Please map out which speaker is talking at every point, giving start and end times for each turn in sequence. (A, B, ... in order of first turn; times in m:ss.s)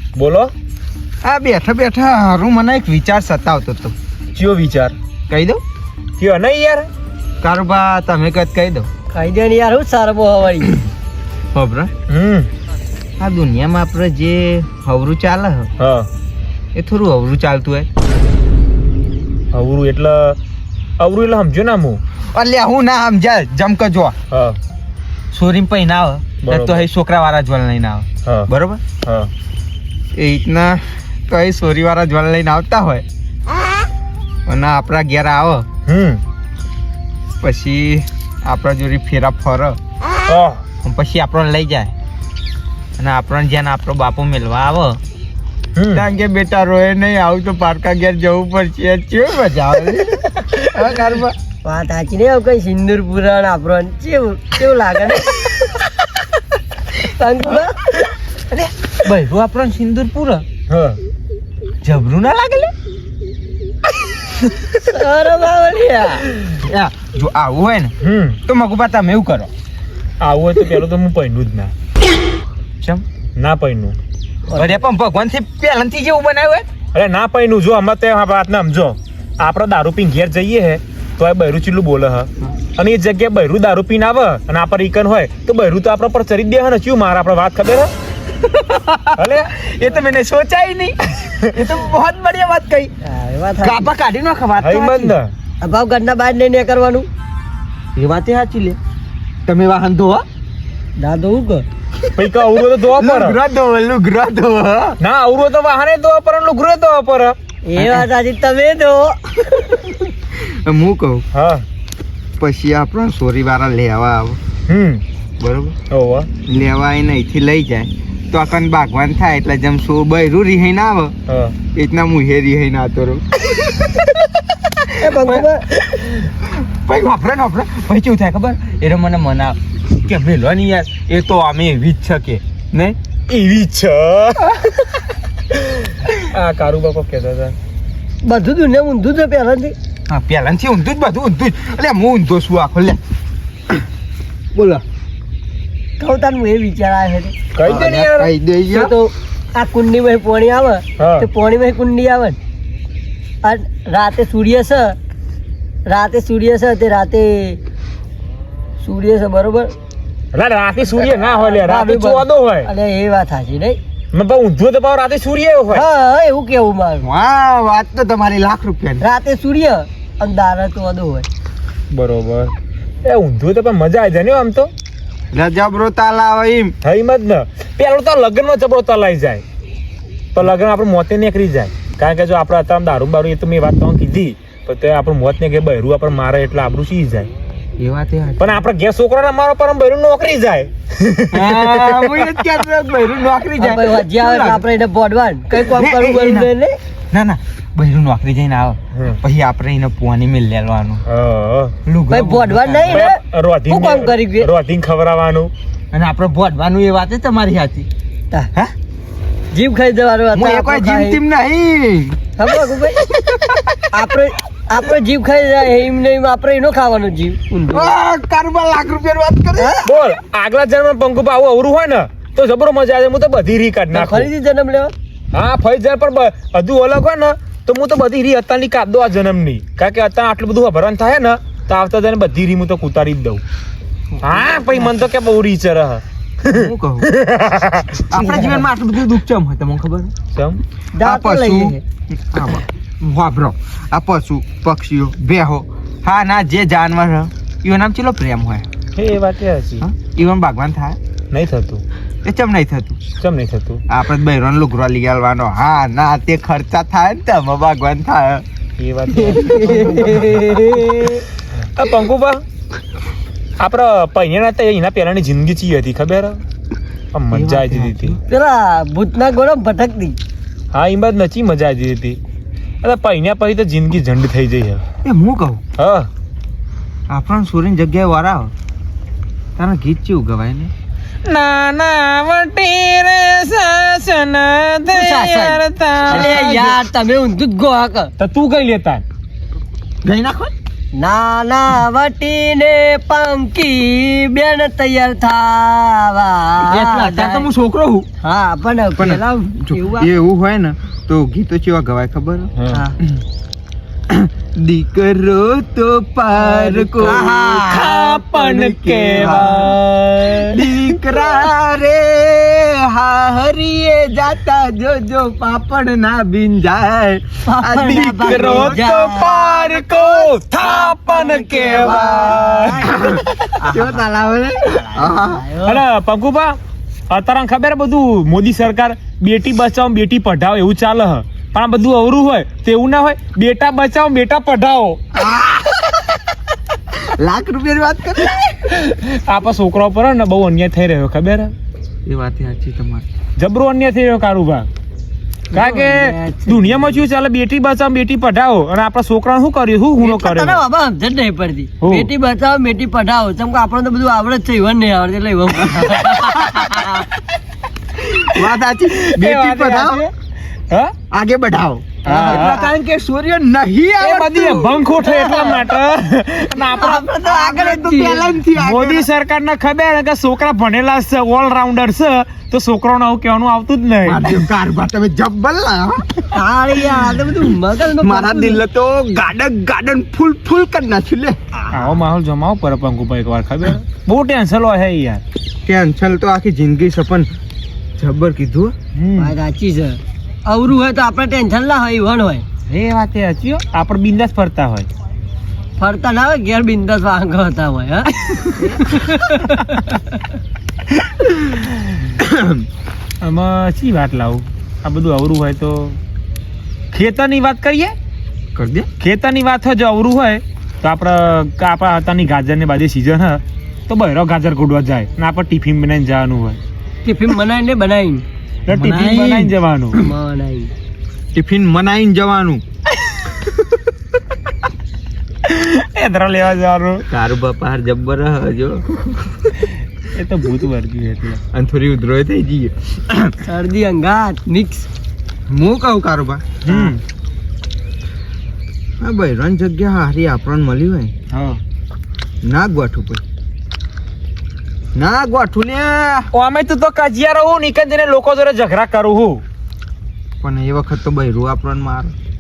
0:00.2-0:00.5 A
0:01.2-0:03.9 B
0:04.4-0:05.0 A
0:05.3-0:05.6 B
0:06.2-0:06.9 A
0:07.4-0:08.9 B
0:09.1-0:10.8 C
0:11.5-0:11.9 B
0:12.1-0:12.5 A
0:13.2-0:15.7 B
0:15.8-0:16.1 A
0:16.8-0:17.9 B
0:19.5-0:20.4 A
0:21.0-0:22.0 A
0:22.3-0:24.2 B
0:24.3-0:24.6 A
0:25.3-0:28.8 B
0:26.4-0:26.8 A
0:29.0-0:29.3 A
0:30.1-0:33.0 B
0:34.5-0:35.7 B
0:35.9-0:36.2 A
0:37.4-0:39.8 B
0:40.3-0:40.6 A
0:40.8-0:41.9 B
0:43.0-0:45.0 B
0:45.8-0:46.0 A
0:45.9-0:51.4 B
0:51.6-0:55.4 C
0:57.0-0:57.8 C
0:58.5-1:00.5 B
1:00.7-1:01.0 A
1:01.8-1:02.7 B
1:04.8-1:06.2 C
1:06.5-1:08.0 B
1:08.0-1:08.4 A
1:08.5-1:09.5 B
1:10.2-1:11.7 A
1:13.4-1:14.0 A
1:14.5-1:14.8 C
1:14.5-1:16.7 B
1:16.9-1:27.9 A
1:28.3-1:32.9 B
1:29.2-1:29.5 A
1:33.0-1:33.9 C
1:33.6-1:35.2 B
1:34.6-1:35.3 A
1:35.6-1:37.1 C
1:38.0-1:38.8 B
1:39.5-1:40.2 B
1:41.0-1:41.6 C
1:42.2-1:43.4 A
1:42.6-1:45.0 B
1:45.0-1:48.1 A
1:47.7-1:49.9 C
1:50.3-1:51.2 B
1:51.3-1:51.6 A
1:52.4-1:54.4 B
1:54.7-1:55.0 A
1:55.4-1:55.8 B
1:55.9-1:56.3 A
1:56.4-2:01.2 B
2:01.3-2:01.6 A
2:01.7-2:04.1 B
2:05.0-2:05.7 C
2:05.0-2:13.0 B
2:13.3-2:15.0 A
2:15.5-2:17.6 A
2:18.2-2:19.8 C
2:20.1-2:23.0 B
2:24.5-2:24.8 B
2:26.0-2:27.3 C
2:27.5-2:28.3 A
2:27.6-2:28.9 B
2:28.7-2:32.4 C
2:31.0-2:31.3 A
2:33.4-2:35.0 C
2:35.9-2:37.6 C
2:38.8-2:39.7 C
2:40.3-2:42.7 A
2:41.0-2:43.8 C
2:44.1-2:45.9 A
2:45.7-2:47.1 C
2:47.0-2:49.0 B
2:49.0-2:51.3 C
2:51.9-2:52.5 A
2:53.0-2:54.7 A
2:55.3-2:56.8 B
2:56.8-2:59.4 A
3:00.3-3:07.3 A
3:07.8-3:08.7 B
3:08.4-3:12.5 A
3:11.3-3:14.6 B
3:13.6-3:16.8 C
3:15.6-3:16.5 B
3:17.1-3:21.0 B
3:18.9-3:19.2 A
3:21.1-3:21.8 A
3:21.9-3:23.0 B
3:22.1-3:24.5 C
3:22.9-3:25.5 A
3:25.9-3:27.9 B
3:29.5-3:31.2 C
3:30.4-3:32.2 B
3:32.4-3:33.0 C
3:33.1-3:33.8 B
3:33.9-3:38.0 C
3:37.7-3:39.9 B
3:39.8-3:44.3 A
3:43.9-3:44.9 C
3:45.3-3:53.4 A
3:54.1-3:55.0 B
3:54.2-3:58.1 A
3:56.5-3:57.1 B
3:58.1-4:00.1 B
3:58.2-3:58.7 C
4:00.3-4:00.6 A
4:01.0-4:01.8 C
4:01.0-4:08.7 B
4:09.0-4:09.8 A
4:09.8-4:11.0 B
4:11.3-4:11.8 A
4:12.2-4:13.0 B
4:13.2-4:13.8 A
4:13.9-4:18.4 B
4:18.8-4:20.9 A
4:19.2-4:21.2 C
4:21.8-4:22.4 A
4:23.6-4:26.4 A
4:27.1-4:28.2 A
4:27.3-4:28.2 B
4:28.3-4:30.2 C
4:30.7-4:32.2 A
4:32.8-4:34.8 A
4:35.0-4:35.6 B
4:35.8-4:36.1 A
4:37.1-4:38.5 B
4:39.6-4:40.7 B
4:41.2-4:46.5 A
4:44.9-4:48.1 C
4:46.1-4:46.8 B
4:48.2-4:49.0 A
4:50.0-4:50.5 B
4:51.0-4:57.5 C
4:56.7-4:58.1 B
4:58.2-5:00.1 C
4:59.0-5:02.5 B
5:02.6-5:02.8 A
5:02.7-5:03.0 C
5:04.1-5:09.8 B
5:06.4-5:08.0 C
5:07.1-5:11.3 A
5:10.4-5:19.8 B
5:17.5-5:19.8 C
5:17.8-5:22.9 A
5:20.6-5:23.1 C
5:21.7-5:25.4 B
5:23.6-5:24.0 C
5:24.7-5:25.8 C
5:25.6-5:26.6 A
5:27.1-5:35.0 A
5:35.2-5:36.0 B
5:36.9-5:38.6 B
5:38.7-5:41.5 A
5:42.1-5:43.1 B
5:43.4-5:44.7 A
5:45.5-5:47.0 C
5:45.5-5:50.6 A
5:50.0-5:57.1 C
5:51.8-5:52.1 A
5:56.1-5:56.9 A
5:58.0-6:00.1 B
5:58.4-6:00.1 A
6:01.1-6:04.8 B
6:02.0-6:02.6 A
6:02.0-6:02.7 C
6:04.0-6:07.1 A
6:05.0-6:05.7 C
6:06.6-6:08.4 C
6:07.0-6:09.1 B
6:08.6-6:14.5 A
6:14.0-6:16.4 B
6:16.3-6:18.6 C
6:17.4-6:21.4 B
6:21.7-6:25.2 A
6:25.7-6:27.3 B
6:28.0-6:28.7 B
6:29.0-6:29.4 A
6:29.2-6:32.4 C
6:32.7-6:34.9 A
6:35.8-6:40.2 C
6:42.2-6:42.6 B
6:43.2-6:46.0 A
6:46.9-6:48.0 A
6:48.6-6:48.9 B
6:49.0-6:56.6 A
6:57.0-6:58.2 C
6:58.7-7:00.1 A
6:58.7-6:59.6 B
6:59.9-7:00.7 C
7:01.3-7:02.6 B
7:05.4-7:07.0 A
7:07.1-7:09.5 B
7:10.0-7:11.4 A
7:11.5-7:13.4 B
7:13.4-7:14.9 C
7:15.5-7:17.0 B
7:16.6-7:17.0 A
7:19.0-7:21.1 B
7:21.3-7:21.6 A
7:22.4-7:23.2 B
7:25.0-7:26.3 B
7:26.3-7:29.4 A
7:30.4-7:32.2 B